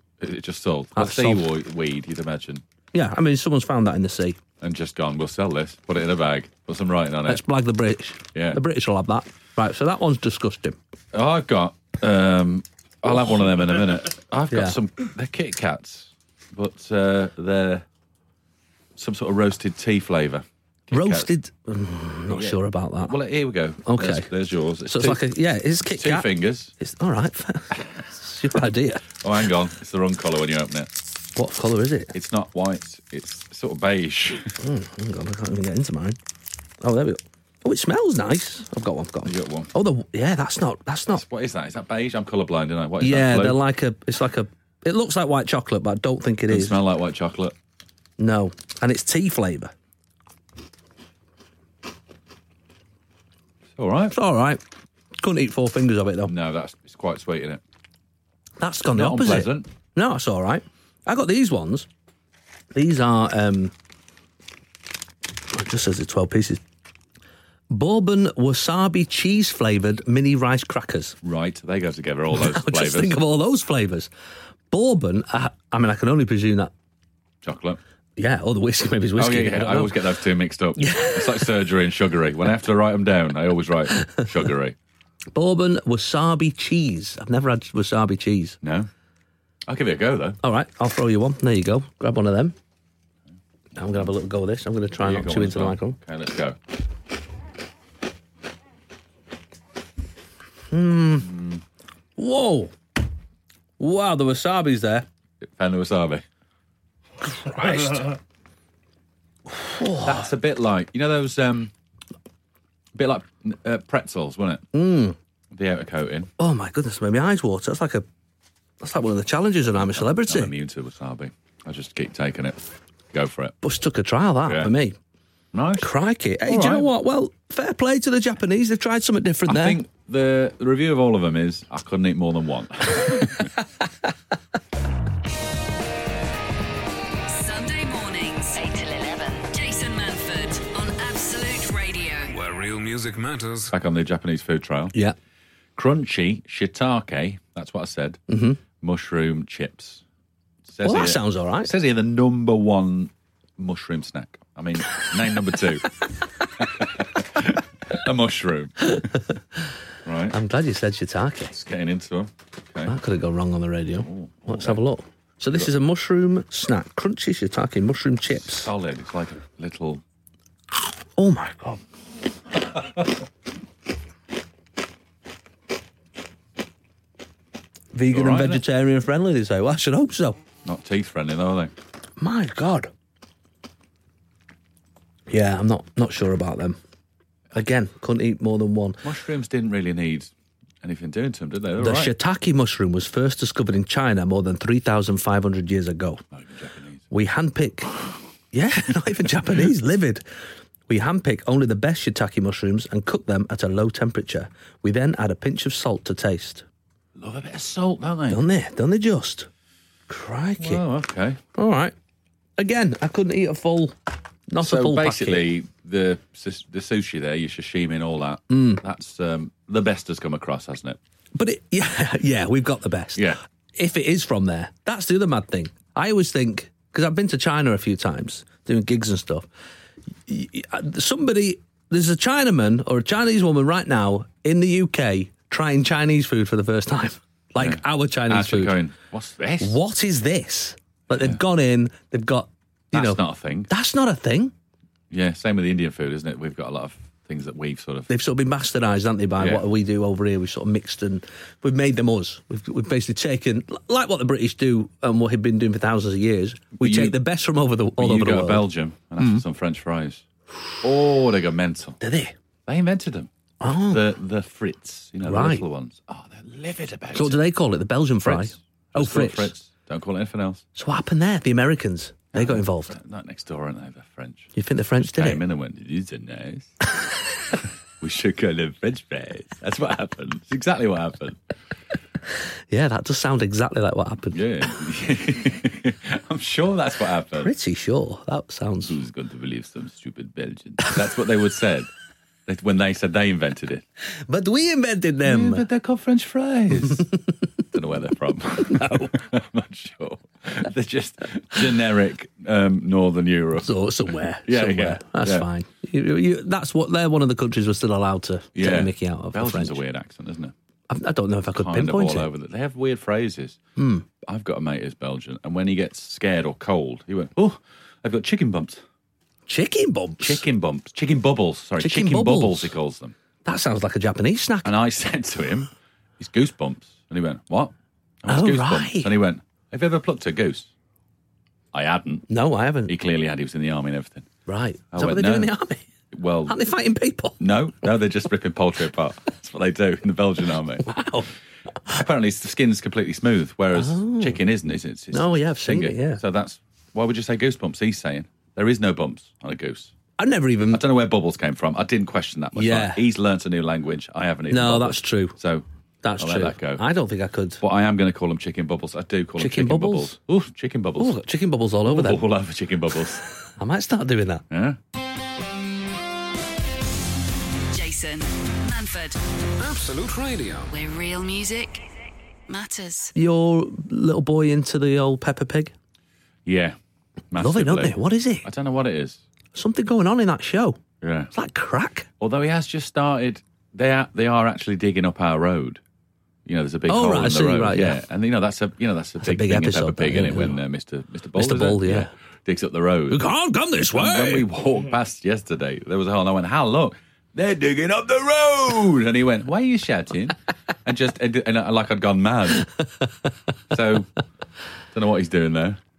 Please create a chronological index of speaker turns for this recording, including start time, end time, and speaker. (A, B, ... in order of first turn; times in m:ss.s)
0:00.2-0:02.6 A
0:01.0-0:01.4 B
0:02.9-0:04.4 B
0:04.6-0:07.4 A
0:07.3-0:10.8 B
0:08.3-0:08.6 A
0:11.1-0:17.8 A
0:14.5-0:14.8 B
0:19.0-0:21.3 A
0:20.9-0:23.1 B
0:22.3-0:25.2 A
0:23.8-0:24.3 B
0:24.8-0:29.0 B
0:25.9-0:26.7 A
0:29.2-0:30.9 A
0:31.4-0:32.1 B
0:32.1-0:34.5 A
0:34.6-0:36.2 B
0:36.8-0:41.2 B
0:39.2-0:39.7 A
0:41.1-0:43.6 A
0:43.0-0:46.8 B
0:46.5-0:47.5 A
0:48.2-0:49.7 B
0:53.8-0:54.2 A
0:54.1-0:54.6 B
0:55.2-0:56.3 B
0:56.2-0:57.6 A
0:58.6-1:01.9 B
0:58.9-0:59.7 A
1:02.7-1:03.7 B
1:05.5-1:06.6 B
1:07.7-1:11.2 B
1:11.2-1:13.2 A
1:12.3-1:14.1 B
1:14.7-1:16.7 B
1:17.4-1:17.8 A
1:18.2-1:19.9 B
1:19.2-1:24.8 A
1:20.8-1:21.4 B
1:25.3-1:28.6 B
1:28.6-1:28.9 A
1:29.6-1:30.4 A
1:30.4-1:32.5 B
1:33.7-1:34.1 A
1:33.7-1:36.0 B
1:35.0-1:36.6 A
1:40.7-1:41.4 B
1:41.3-1:41.6 A
1:42.2-1:42.7 B
1:43.8-1:45.0 B
1:45.4-1:46.2 A
1:47.2-1:48.2 B
1:49.5-1:50.3 B
1:50.0-1:51.7 A
1:52.9-1:54.6 A
1:54.7-1:55.2 B
1:55.5-1:56.3 A
1:56.4-1:58.0 B
1:58.8-2:00.5 B
1:59.8-2:03.6 A
2:03.6-2:05.0 B
2:04.4-2:04.7 A
2:05.5-2:05.9 A
2:05.8-2:09.8 B
2:06.4-2:06.9 A
2:09.5-2:13.5 A
2:17.3-2:22.3 C
2:22.2-2:23.7 D
2:23.7-2:24.9 A
2:25.8-2:28.2 A
2:28.3-2:28.6 B
2:28.8-2:30.0 A
2:30.6-2:35.9 A
2:30.8-2:31.7 B
2:36.6-2:38.9 A
2:38.8-2:39.4 B
2:40.0-2:40.4 A
2:40.3-2:41.5 B
2:41.5-2:43.0 A
2:42.8-2:48.7 B
2:43.9-2:44.8 A
2:48.3-2:50.0 A
2:51.2-2:51.8 B
2:57.9-3:00.4 B
2:58.1-2:58.6 A
3:00.6-3:01.7 A
3:02.2-3:02.9 B
3:05.3-3:06.8 B
3:07.5-3:09.0 B
3:09.0-3:10.3 A
3:10.8-3:12.1 A
3:11.8-3:16.2 B
3:16.3-3:17.0 A
3:17.1-3:17.9 B
3:18.5-3:20.2 B
3:20.9-3:26.6 B
3:27.2-3:28.4 A
3:28.3-3:29.5 B
3:30.1-3:30.8 B
3:30.6-3:31.4 A
3:31.5-3:31.9 B
3:32.6-3:34.0 B
3:34.5-3:35.4 B
3:34.6-3:41.0 A
3:38.5-3:38.8 B
3:41.3-3:49.4 B
3:50.3-3:58.8 B
3:57.6-3:59.8 A
3:59.6-4:04.5 B
4:01.1-4:01.4 A
4:02.9-4:03.7 A
4:05.1-4:08.1 A
4:08.1-4:18.6 B
4:09.4-4:09.6 A
4:16.8-4:17.2 A
4:18.0-4:20.2 A
4:20.8-4:22.0 A
4:22.0-4:22.3 B
4:22.7-4:23.3 A
4:23.6-4:24.0 B
4:23.9-4:27.4 A
4:25.2-4:25.6 B
4:27.1-4:29.5 B
4:28.2-4:30.6 A
4:30.7-4:33.0 B
4:32.3-4:36.8 A
4:34.5-4:35.4 B
4:37.5-4:41.4 A
4:42.7-4:44.4 B
4:44.3-4:47.5 A
4:47.4-4:48.9 B
4:48.8-4:51.9 A
4:52.5-4:53.8 A
4:54.3-4:55.6 B
4:55.2-4:57.1 A
4:57.7-5:03.7 A
4:58.6-4:59.1 B
5:03.6-5:09.8 B
5:04.4-5:05.4 A
5:08.5-5:10.5 A
5:10.9-5:12.3 B
5:11.5-5:13.6 A
5:13.8-5:14.0 B
5:14.2-5:18.8 A
5:19.5-5:20.4 B
5:20.2-5:23.1 A
5:21.8-5:22.7 B
5:23.4-5:24.7 B
5:24.6-5:30.7 A
5:28.3-5:29.1 B
5:31.7-5:32.3 A
5:32.3-5:32.9 B
5:32.9-5:34.3 A
5:34.5-5:35.8 B
5:34.9-5:35.5 A
5:36.1-5:36.6 A
5:36.5-5:37.4 B
5:37.4-5:41.0 A
5:40.8-5:41.3 B
5:41.9-5:49.9 A
5:43.7-5:44.4 B
5:45.1-5:46.2 B
5:50.2-5:50.8 B
5:50.7-5:55.6 A
5:52.5-5:53.0 B
5:54.5-5:55.4 B
5:56.0-5:57.6 B
5:56.2-5:56.8 A
5:57.6-6:01.2 A
5:59.4-6:00.2 B
6:01.0-6:02.2 B
6:01.8-6:03.2 A
6:03.6-6:04.4 B
6:04.5-6:04.8 A
6:07.7-6:09.2 C
6:09.6-6:10.7 D
6:10.7-6:11.8 C
6:12.5-6:13.1 C
6:13.1-6:15.7 B
6:16.4-6:16.8 A
6:17.3-6:19.2 A
6:17.4-6:18.5 B
6:19.5-6:20.8 B
6:21.0-6:21.3 A
6:21.3-6:22.1 B
6:22.2-6:25.8 A
6:26.4-6:33.3 A
6:26.9-6:28.0 B
6:29.2-6:30.6 B
6:31.4-6:32.1 B
6:33.1-6:34.5 B
6:33.9-6:42.7 A
6:43.7-6:44.1 A
6:44.9-6:45.8 A